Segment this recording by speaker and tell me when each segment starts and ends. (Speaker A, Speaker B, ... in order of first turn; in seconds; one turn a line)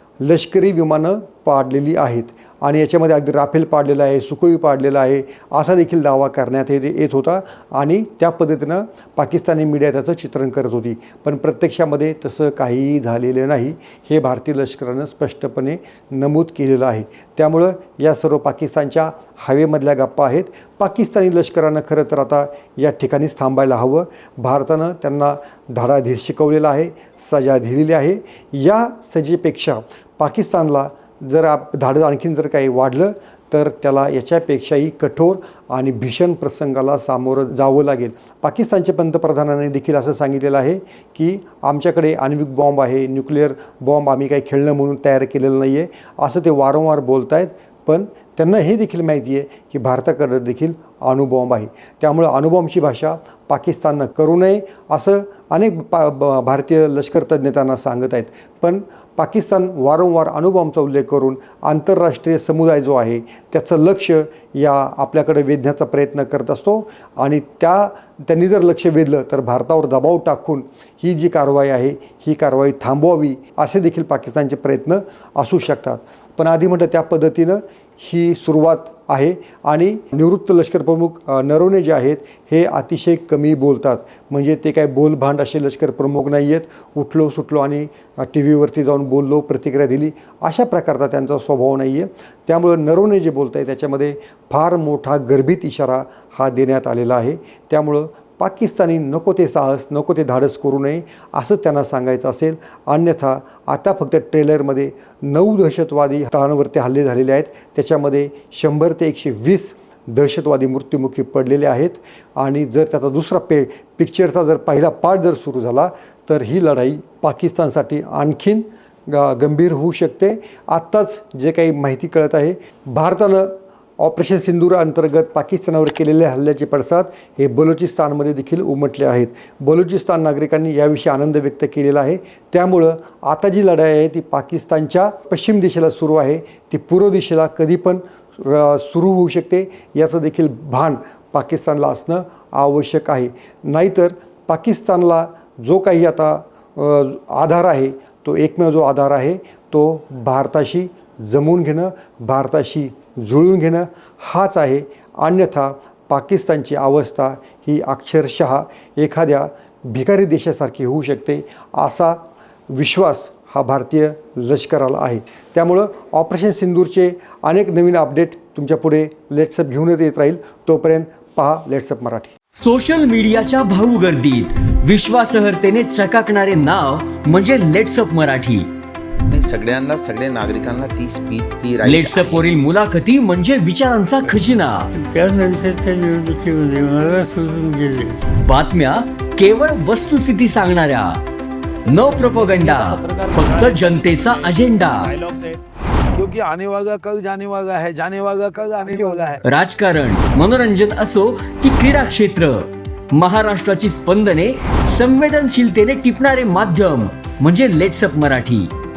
Speaker A: 0.2-162.2
Speaker A: 162.7-172.3
Speaker B: 172.6-178.7
Speaker C: 179.3-182.4
Speaker B: 181.8-184.9
Speaker D: 184.9-188.2
Speaker B: 188.4-191.2
Speaker B: 191.9-195.1
Speaker E: 192.1-195.6
Speaker E: 196.2-199.4
Speaker B: 199.4-208.7